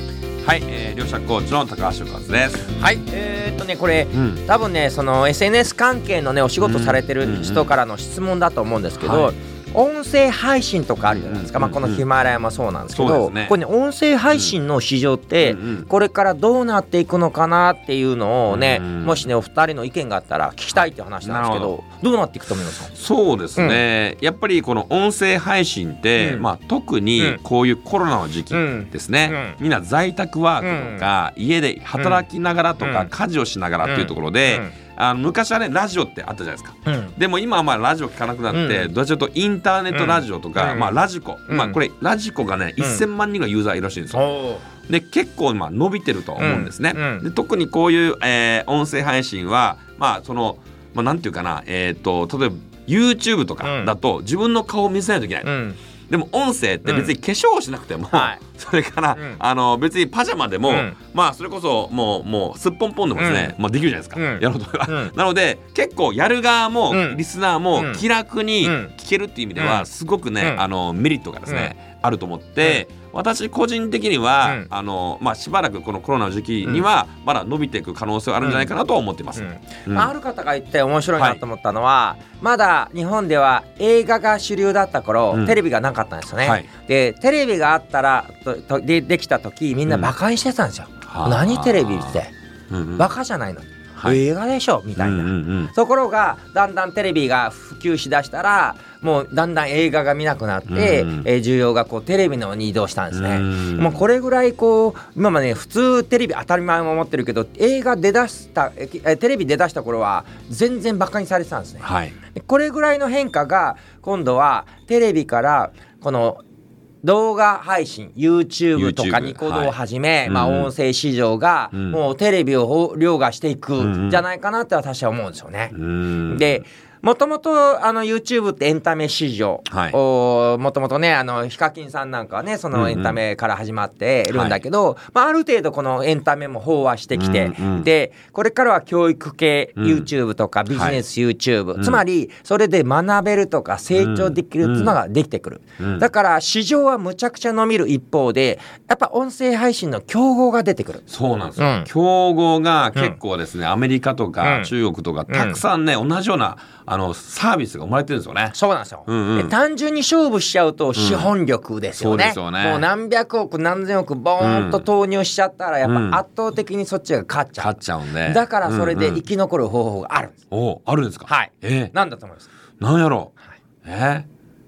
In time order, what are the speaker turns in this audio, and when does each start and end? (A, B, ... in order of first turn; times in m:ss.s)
0:00.4-0:02.7 A
0:02.8-0:22.9 B
0:04.1-0:04.4 A
0:06.6-0:07.7 A
0:09.0-0:09.3 A
0:11.2-0:12.0 A
0:12.9-0:13.6 A
0:15.4-0:15.9 A
0:18.5-0:19.3 A
0:21.2-0:21.7 A
0:22.9-0:44.2 A
0:26.2-0:26.5 B
0:28.5-0:29.6 B
0:30.6-0:31.0 B
0:32.0-0:32.2 B
0:32.8-0:33.1 B
0:33.8-0:34.8 B
0:36.9-0:37.1 B
0:38.5-0:38.9 B
0:39.9-0:40.9 B
0:41.5-0:41.8 B
0:44.1-0:44.6 B
0:44.8-0:55.5 A
0:46.4-0:47.2 B
0:53.6-0:53.9 B
0:55.4-0:55.8 B
0:56.1-1:20.1 A
0:56.8-0:57.1 B
0:58.1-0:58.4 B
1:00.7-1:01.0 B
1:03.2-1:03.5 B
1:04.2-1:05.1 B
1:06.9-1:07.2 B
1:07.8-1:08.0 B
1:08.6-1:08.9 B
1:09.6-1:09.9 B
1:11.5-1:11.7 B
1:18.4-1:18.7 B
1:19.4-1:32.3 B
1:26.4-1:26.7 A
1:31.1-1:33.1 A
1:33.0-1:56.4 B
1:35.0-1:35.7 A
1:40.7-1:41.3 A
1:43.1-1:44.0 A
1:51.8-1:52.2 A
1:57.0-2:05.7 B
1:58.8-1:59.7 A
2:00.3-2:00.7 A
2:01.7-2:02.0 A
2:03.8-2:04.2 A
2:05.7-2:06.6 A
2:06.3-2:31.0 B
2:09.7-2:10.0 A
2:12.7-2:13.2 A
2:14.3-2:14.6 A
2:17.1-2:17.9 A
2:19.8-2:20.1 A
2:20.7-2:21.0 A
2:24.0-2:24.9 A
2:25.8-2:26.0 A
2:31.1-2:38.6 A
2:31.6-2:31.9 B
2:34.4-2:34.7 B
2:35.3-2:35.6 B
2:38.5-2:50.4 B
2:39.1-2:39.5 A
2:41.0-2:41.3 A
2:42.0-2:42.8 A
2:44.4-2:44.9 A
2:45.8-2:46.2 A
2:47.6-2:49.2 A
2:50.5-2:51.9 A
2:51.3-2:52.5 B
2:52.8-2:54.3 A